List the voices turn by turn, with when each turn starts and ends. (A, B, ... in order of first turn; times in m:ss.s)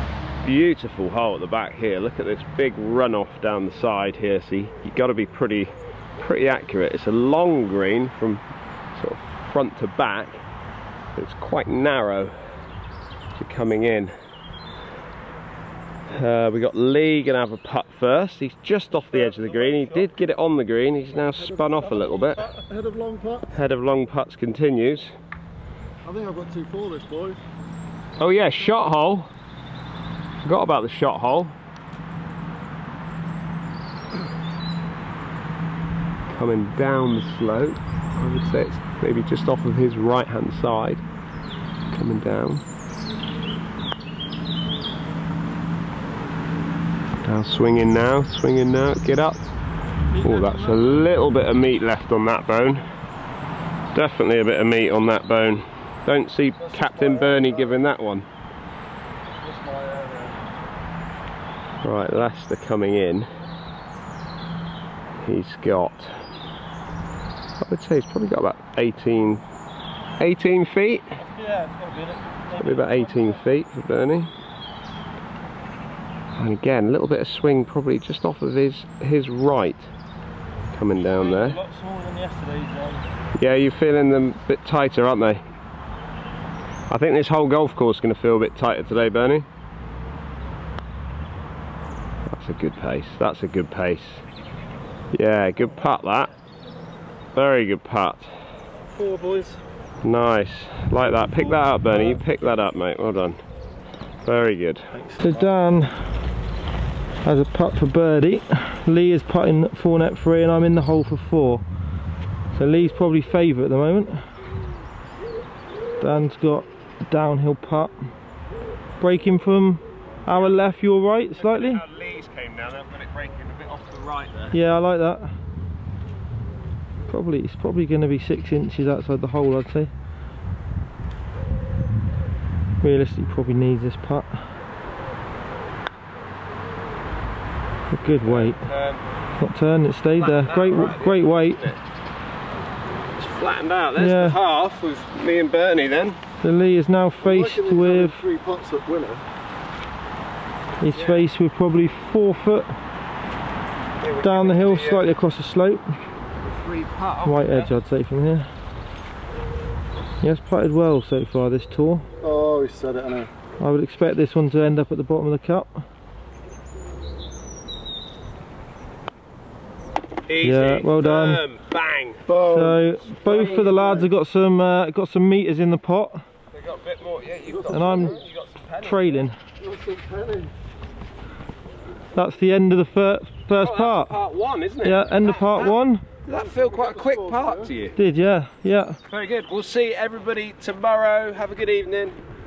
0:00.4-0:08.4 A
0:08.9-0:10.4 A
0:11.2-0:12.4 A
0:13.4-0:14.1 A
0:16.1-0:22.5 A
0:19.1-0:20.1 B
0:21.4-0:23.5 C
0:23.5-0:25.1 A
0:26.0-0:27.4 C
0:28.2-0:29.3 A
0:30.4-0:31.5 A
0:36.4-0:41.0 A
0:41.9-0:42.6 A
0:47.2-0:49.4 A
0:50.1-0:51.0 B
0:50.2-0:52.8 A
0:53.9-0:58.2 A
0:56.6-0:57.8 C
0:59.4-1:00.5 C
1:01.8-1:03.3 A
1:05.2-1:06.2 A
1:07.6-1:09.4 A
1:10.2-1:11.1 A
1:11.2-1:13.4 B
1:12.6-1:14.3 A
1:16.4-1:19.9 A
1:20.7-1:21.6 A
1:21.0-1:23.0 B
1:23.3-1:25.4 A
1:26.9-1:29.4 A
1:32.3-1:34.2 A
1:35.1-1:36.3 A
1:37.3-1:38.3 A
1:38.9-1:39.6 B
1:40.0-1:43.4 A
1:41.4-1:42.2 B
1:44.2-1:45.4 A
1:45.0-1:46.1 B
1:47.2-1:51.6 B
1:52.5-1:54.3 B
1:56.0-1:58.1 B
1:59.0-2:01.8 B
2:00.3-2:00.7 A
2:01.4-2:04.6 A
2:04.5-2:05.3 B
2:07.1-2:09.9 B
2:12.8-2:14.4 B
2:17.9-2:18.6 B
2:18.2-2:19.0 A
2:19.4-2:21.7 B
2:20.2-2:21.8 A
2:23.2-2:26.2 A
2:24.0-2:24.4 B
2:26.4-2:28.2 B
2:27.2-2:29.2 C
2:30.8-2:32.7 B
2:30.9-2:31.2 A
2:34.0-2:35.1 A
2:34.2-2:35.9 B
2:36.4-2:37.7 A
2:37.2-2:38.5 B
2:40.2-2:42.1 B
2:42.2-2:43.3 C
2:43.6-2:45.8 B
2:50.3-2:52.2 A
2:50.4-2:51.4 B
2:52.3-2:54.0 C
2:52.4-2:56.2 B
2:53.2-2:54.0 A
2:56.5-2:59.3 A
2:57.7-2:58.2 B
2:58.8-2:59.4 B
2:59.6-3:00.5 C
3:02.1-3:04.1 B
3:03.6-3:08.0 A
3:04.8-3:06.0 B
3:06.3-3:07.7 C
3:08.0-3:09.0 B
3:09.1-3:12.2 A